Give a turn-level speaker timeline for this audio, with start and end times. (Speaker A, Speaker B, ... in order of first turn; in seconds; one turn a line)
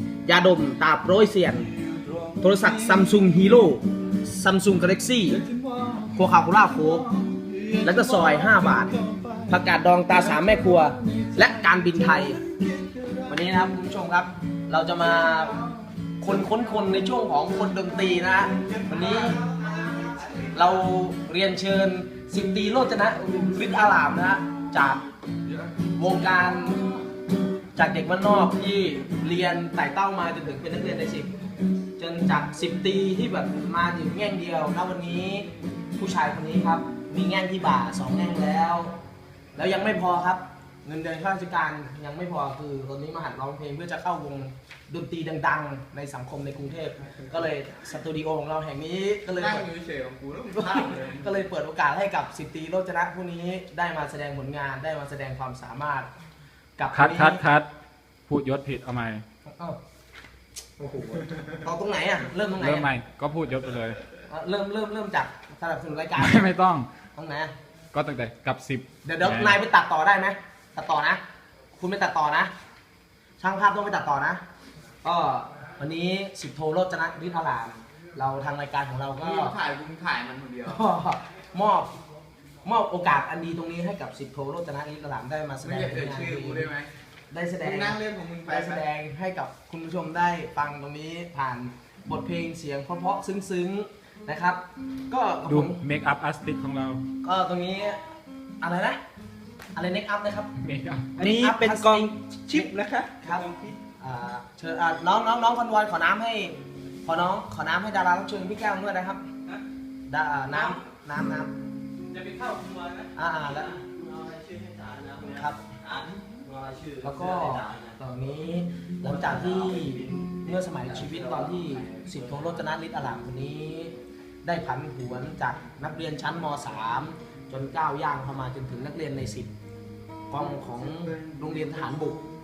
Speaker A: 0.2-1.7
Speaker B: 1.7-3.2
Speaker A: 2.4-5.4
Speaker B: 5.4-6.2
Speaker A: 6.1-7.1
Speaker B: 6.8-9.6
Speaker A: 7.8-8.9
Speaker A: 9.5-12.4
Speaker B: 10.3-13.4
Speaker A: 13.2-15.6
Speaker B: 15.3-15.8
Speaker A: 16.2-19.4
Speaker B: 18.6-20.3
Speaker A: 20.5-25.0
Speaker A: 25.9-26.9
Speaker A: 27.7-31.3
Speaker A: 32.0-38.9
Speaker A: 39.5-49.7
Speaker B: 49.3-51.4
Speaker A: 50.5-56.1
Speaker A: 56.8-57.4
Speaker C: 56.9-57.7
Speaker C: 58.3-59.2
Speaker A: 59.5-59.8
Speaker A: 60.8-62.9
Speaker C: 62.6-64.0
Speaker A: 64.2-66.4
Speaker C: 66.2-66.9
Speaker A: 67.2-67.5
Speaker C: 67.9-69.6
Speaker A: 69.0-71.2
Speaker A: 71.8-72.5
Speaker A: 73.4-74.4
Speaker A: 75.0-79.5
Speaker B: 79.2-80.8
Speaker A: 80.7-81.9
Speaker A: 82.6-86.7
Speaker B: 85.6-86.9
Speaker A: 87.3-95.8
Speaker B: 87.6-88.8
Speaker C: 95.5-97.0
Speaker A: 97.2-98.0
Speaker A: 98.6-99.0
Speaker A: 99.7-100.5
Speaker C: 100.6-101.8
Speaker A: 101.2-103.5
Speaker D: 102.3-103.7
Speaker A: 104.0-109.2
Speaker A: 110.1-111.5
Speaker D: 112.1-118.0
Speaker A: 113.1-113.8
Speaker A: 115.3-115.6
Speaker A: 117.0-129.5
Speaker D: 119.0-120.4
Speaker D: 121.1-121.4
Speaker A: 130.3-132.2
Speaker B: 130.5-132.2